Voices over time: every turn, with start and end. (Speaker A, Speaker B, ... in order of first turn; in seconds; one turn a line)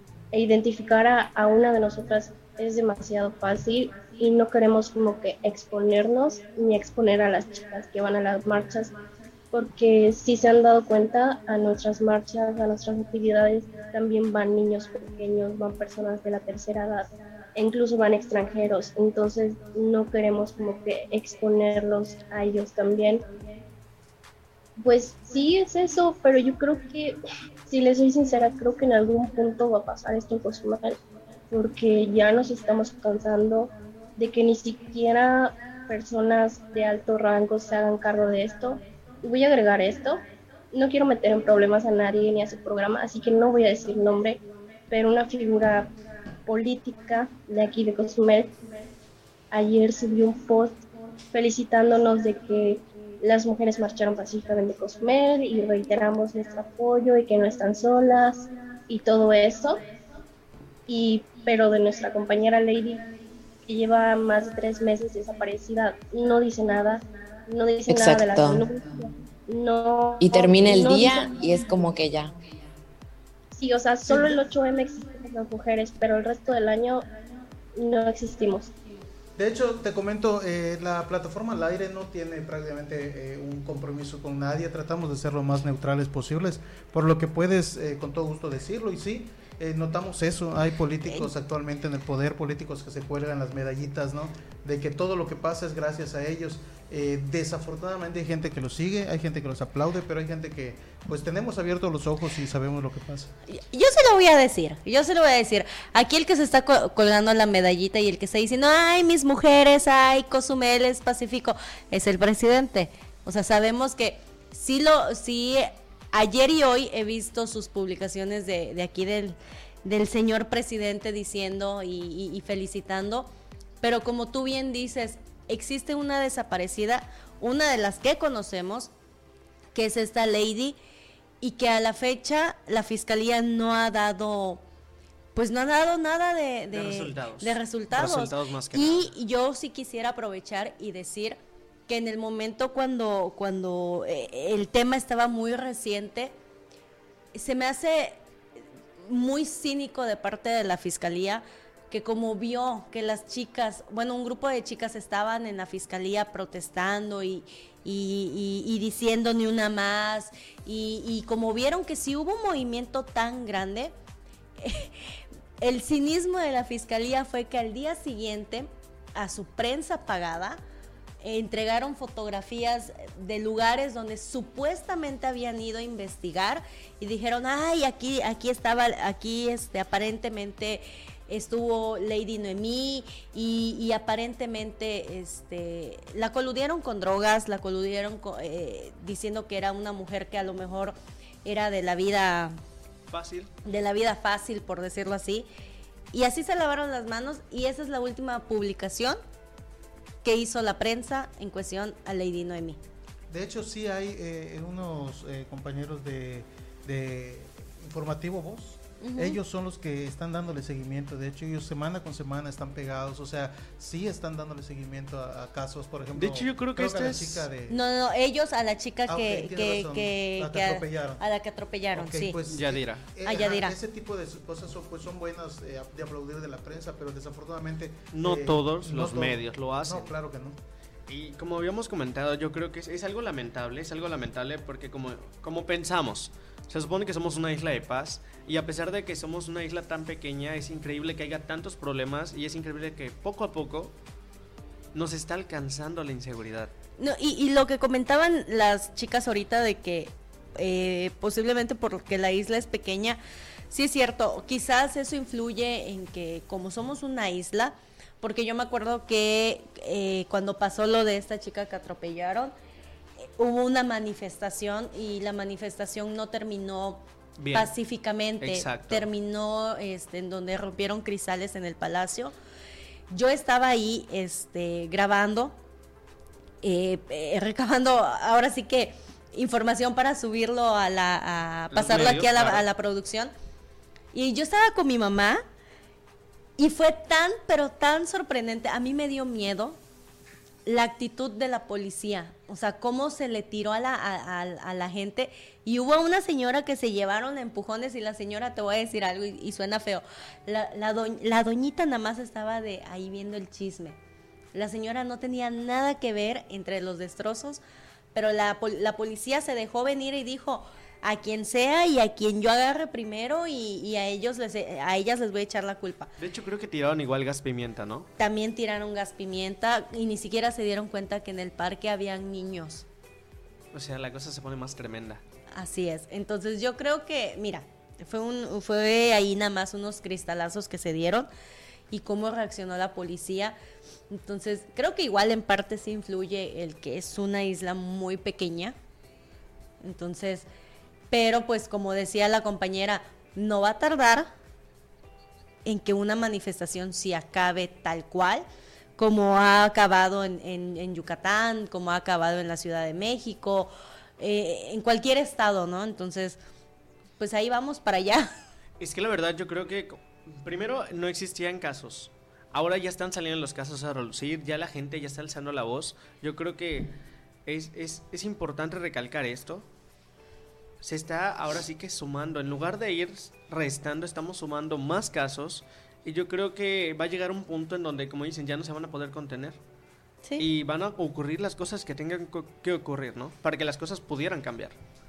Speaker A: 0.3-8.9
Speaker A: 9.5-23.2
Speaker A: 24.8-31.0
Speaker A: 31.5-40.2
Speaker A: 40.7-45.9
Speaker A: 46.5-48.5
Speaker A: 49.5-50.8
Speaker A: 51.3-59.8
Speaker A: 60.9-63.0
Speaker A: 63.7-71.4
Speaker B: 67.9-68.6
Speaker B: 70.2-72.3
Speaker A: 73.5-77.0
Speaker A: 77.7-78.7
Speaker C: 79.4-103.3
Speaker D: 103.5-123.3
Speaker D: 123.8-128.9
Speaker D: 129.7-130.8
Speaker D: 131.4-134.6
Speaker D: 135.3-146.3
Speaker E: 136.7-139.1
Speaker D: 147.3-148.2
Speaker D: 149.1-163.9
Speaker D: 164.6-165.1
Speaker D: 165.6-170.6
Speaker D: 171.2-192.6
Speaker E: 193.1-193.5
Speaker D: 193.7-195.5
Speaker D: 196.1-199.2
Speaker D: 200.2-202.8
Speaker C: 203.3-217.8
Speaker D: 209.0-209.4
Speaker E: 216.2-217.5
Speaker D: 217.7-222.4
Speaker C: 219.1-221.2
Speaker C: 221.9-230.6
Speaker E: 222.5-223.1
Speaker D: 223.2-223.8
Speaker E: 228.1-230.1
Speaker E: 231.1-243.9
Speaker E: 244.9-246.7
Speaker D: 247.0-253.2
Speaker D: 253.7-262.5
Speaker D: 263.4-272.3
Speaker E: 267.4-267.7
Speaker E: 268.4-269.1
Speaker D: 273.1-275.6
Speaker D: 276.6-283.3
Speaker E: 281.7-282.6
Speaker D: 284.1-285.4
Speaker D: 286.6-289.8
Speaker D: 290.7-304.0
Speaker D: 304.5-307.6
Speaker D: 308.1-316.1
Speaker E: 316.2-318.1
Speaker D: 318.2-322.9
Speaker E: 323.7-325.2
Speaker D: 325.5-331.3
Speaker D: 331.9-333.6
Speaker D: 334.1-338.8
Speaker D: 339.8-340.5
Speaker D: 341.1-344.3
Speaker D: 345.6-348.4
Speaker D: 349.0-356.4
Speaker D: 357.2-358.3
Speaker E: 358.8-366.9
Speaker E: 367.5-369.7
Speaker E: 370.8-379.6
Speaker E: 380.4-384.8